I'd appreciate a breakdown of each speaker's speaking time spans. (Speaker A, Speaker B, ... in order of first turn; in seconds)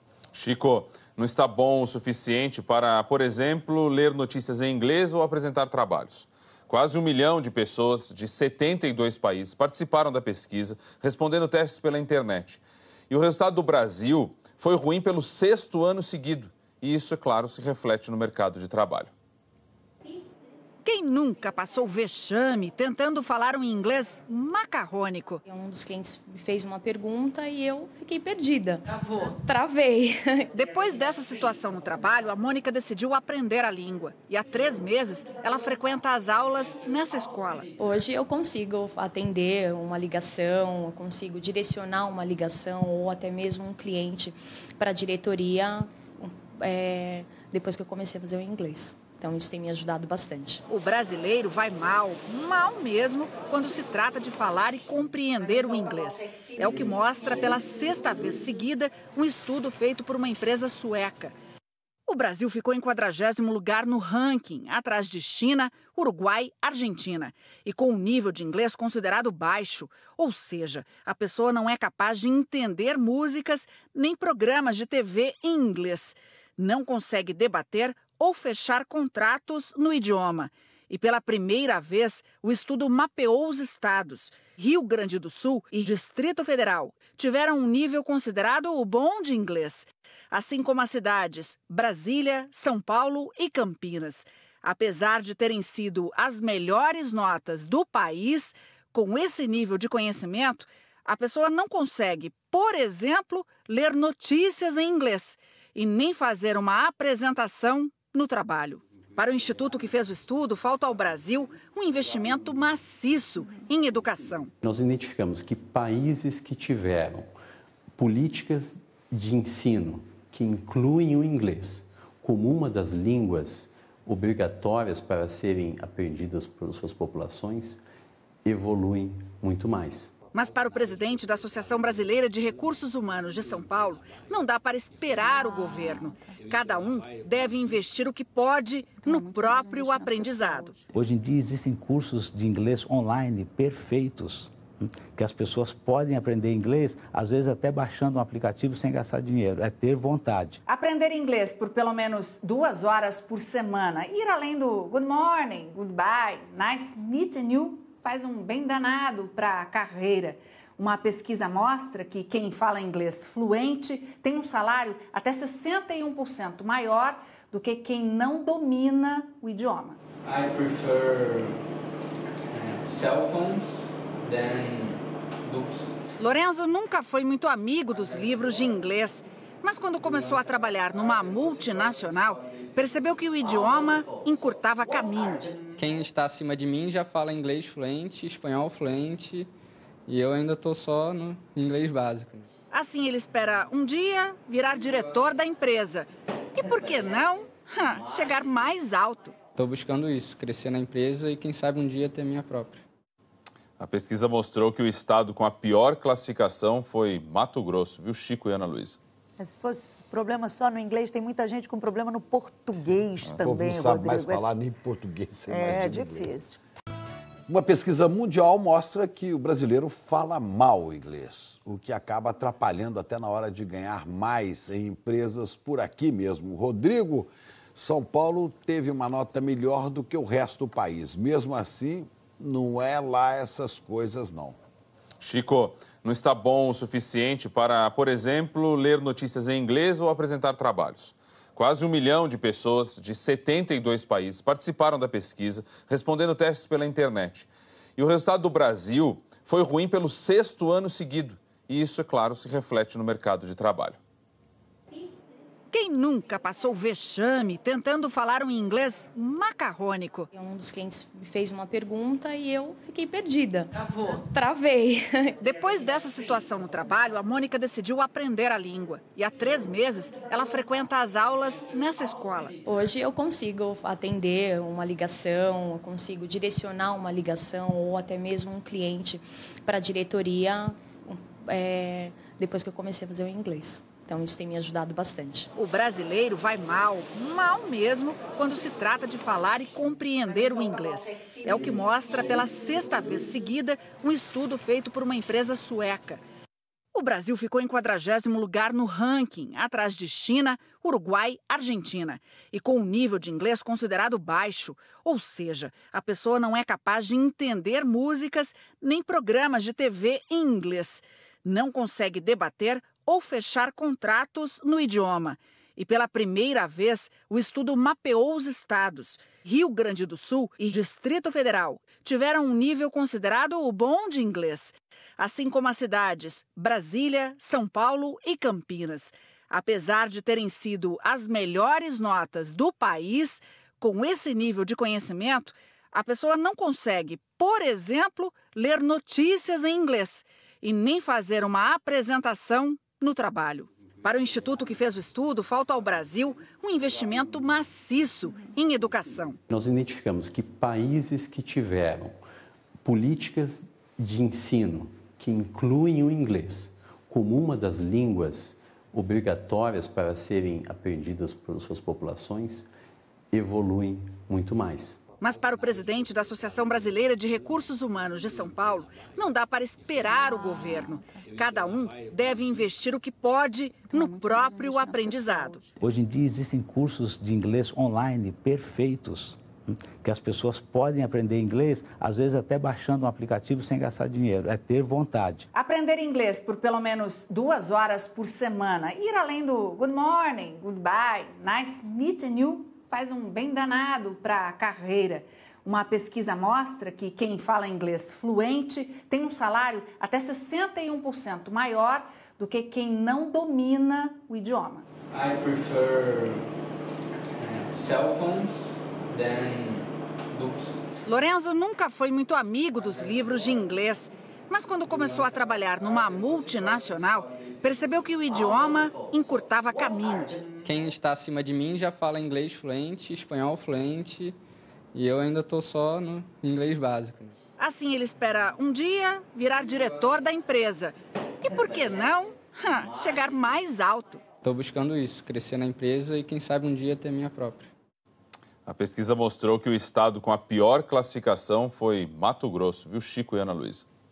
Speaker A: 0.3-19.1, 203.8-209.0, 235.2-254.0, 438.6-443.8
Speaker B: 20.8-25.4, 30.5-37.6, 50.7-61.3, 62.1-114.5, 130.3-140.8, 150.7-170.0, 176.2-185.6, 192.7-199.3, 255.7-260.3, 265.4-272.5, 285.6-296.2, 296.9-349.4, 365.2-375.7, 385.5-404.9, 411.1-420.5, 427.6-434.2
Speaker C: 25.5-30.5, 37.8-50.6, 260.3-265.4, 272.6-285.5
Speaker D: 114.6-117.3, 117.9-127.8, 128.4-130.2, 349.5-352.2, 352.8-362.7, 363.3-365.0
Speaker E: 140.9-150.6, 375.8-385.5
Speaker F: 170.2-171.6, 172.5-175.9, 405.1-406.5, 407.3-410.8
Speaker G: 185.8-189.5, 190.1-192.5, 199.5-202.8, 420.6-424.4, 424.9-427.4, 434.4-437.7
Speaker H: 209.4-214.5, 215.5-216.6
Speaker I: 213.2-216.4, 217.5-234.6